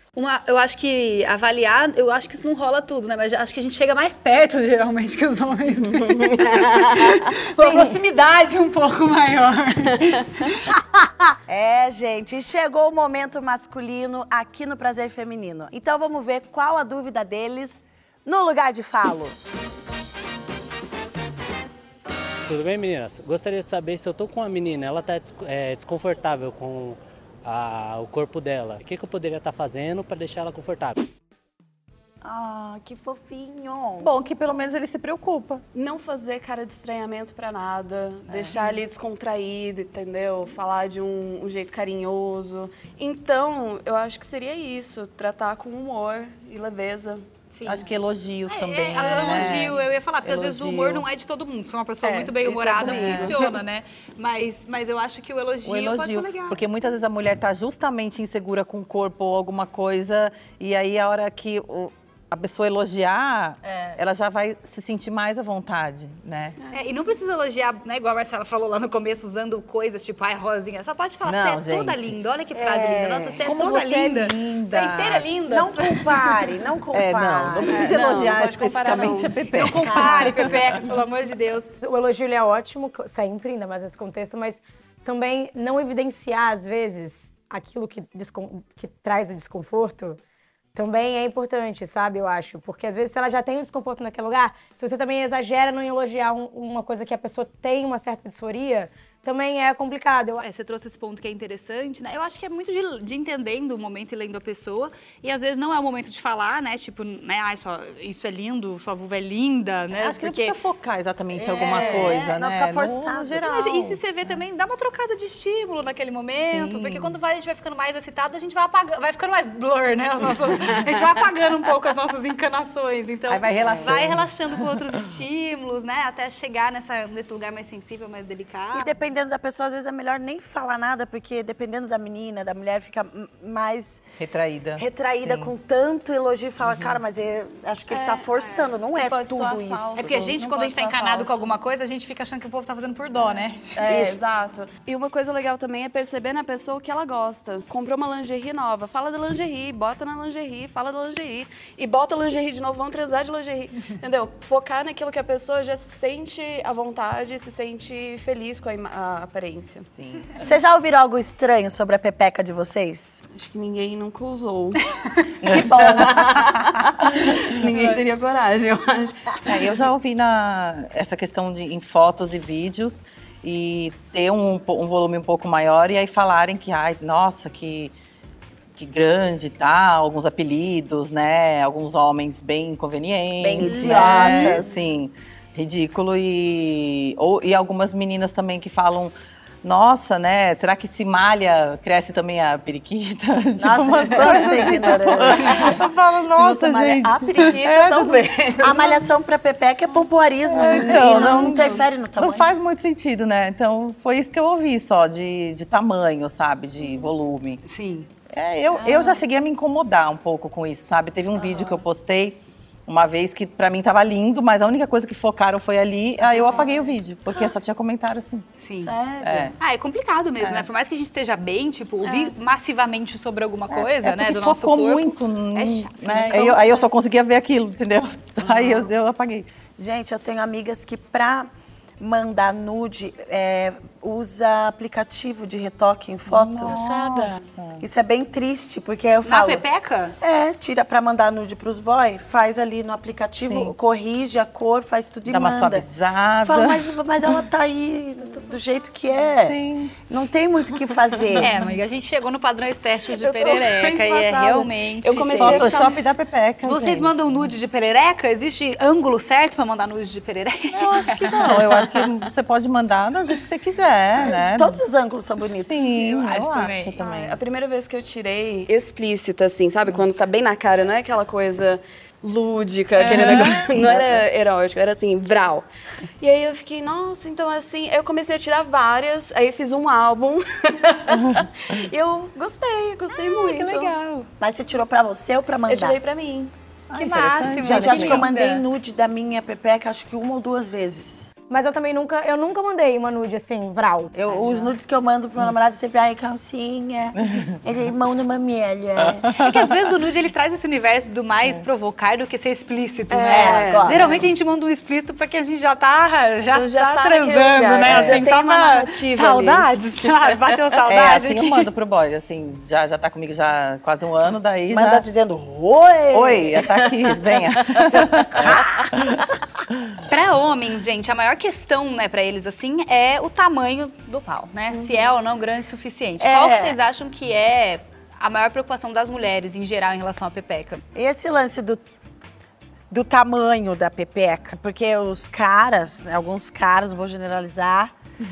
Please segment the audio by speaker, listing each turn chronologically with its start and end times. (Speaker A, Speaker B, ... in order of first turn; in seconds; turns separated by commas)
Speaker A: 0.1-10.5, Speaker B: 6.2-7.1, Speaker C: 11.5-19.4, Speaker D: 22.4-31.0, Speaker C: 32.2-34.1, Speaker E: 34.0-35.6, Speaker B: 35.7-47.2, Speaker A: 47.5-47.8, Speaker E: 47.6-51.0, Speaker A: 48.5-56.6, Speaker B: 52.0-53.5, Speaker E: 52.8-53.5, Speaker E: 55.6-66.6, Speaker C: 63.7-64.0, Speaker A: 66.7-76.3, Speaker E: 71.2-72.2, Speaker C: 72.5-73.4, Speaker E: 73.4-75.3, Speaker C: 75.5-78.3, Speaker E: 76.9-80.8, Speaker B: 77.7-79.3, Speaker A: 79.5-81.7, Speaker C: 79.8-80.5, Speaker F: 81.8-90.2, Speaker F: 90.7-100.4, Speaker A: 100.4-110.6, Speaker E: 109.9-114.0, Speaker A: 111.5-112.3, Speaker C: 111.6-113.4, Speaker A: 113.4-128.9, Speaker E: 116.4-117.2, Speaker E: 123.3-124.3, Speaker C: 128.7-134.0, Speaker E: 134.2-135.5, Speaker C: 134.8-140.3, Speaker B: 137.9-141.5, Speaker A: 139.9-143.8, Speaker B: 143.7-159.9, Speaker C: 143.9-144.2, Speaker E: 159.9-160.4, Speaker C: 160.4-163.2, Speaker B: 163.3-164.8, Speaker E: 165.4-166.6, Speaker B: 165.5-169.2, Speaker C: 165.5-165.9, Speaker E: 169.4-177.9, Speaker E: 178.8-198.3, Speaker C: 183.4-184.8, Speaker A: 183.6-184.6, Speaker C: 193.6-197.0, Speaker B: 195.2-195.7, Speaker B: 197.0-199.1, Speaker C: 198.6-202.5, Speaker E: 200.5-207.6, Speaker A: 207.7-208.1, Speaker E: 208.3-218.5, Speaker A: 218.6-218.9, Speaker C: 218.7-219.5, Speaker E: 219.2-219.5, Speaker A: 219.6-226.6, Speaker E: 220.4-220.7, Speaker E: 223.7-229.5, Speaker C: 228.4-228.8, Speaker C: 229.8-236.8, Speaker E: 236.3-237.8, Speaker B: 236.6-237.4, Speaker C: 237.8-239.6, Speaker A: 239.2-240.2, Speaker C: 240.2-245.8, Speaker E: 243.4-243.7, Speaker E: 245.3-247.4, Speaker C: 246.4-249.6, Speaker E: 249.4-249.9, Speaker C: 250.1-251.5, Speaker A: 251.4-255.8, Speaker B: 253.2-255.9, Speaker C: 255.2-255.6, Speaker E: 255.4-257.2, Speaker A: 256.6-261.5, Speaker E: 260.7-264.8, Speaker C: 264.2-266.4, Speaker E: 265.6-267.4, Speaker A: 266.4-266.9, Speaker B: 267.0-275.6, Speaker A: 273.0-273.7, Speaker E: 273.1-273.9, Speaker B: 276.2-283.9, Speaker A: 283.1-284.3, Speaker C: 284.4-286.0, Speaker B: 285.7-286.5, Speaker E: 286.9-288.3, Speaker A: 286.9-288.6, Speaker C: 287.6-291.3, Speaker F: 291.5-294.1, Speaker C: 294.1-299.3, Speaker A: 294.3-294.7, Speaker E: 299.3-299.6, Speaker A: 299.4-311.7, Speaker B: 303.1-304.2, Speaker C: 303.3-304.2, Speaker B: 306.5-309.7, Speaker C: 307.8-308.2, Speaker E: 310.9-315.1, Speaker C: 314.7-317.1, Speaker E: 316.1-319.2, Speaker C: 317.8-318.8, Speaker A: 320.1-330.8, Speaker C: 326.2-326.8, Speaker C: 330.9-331.8, Speaker C: 332.9-337.9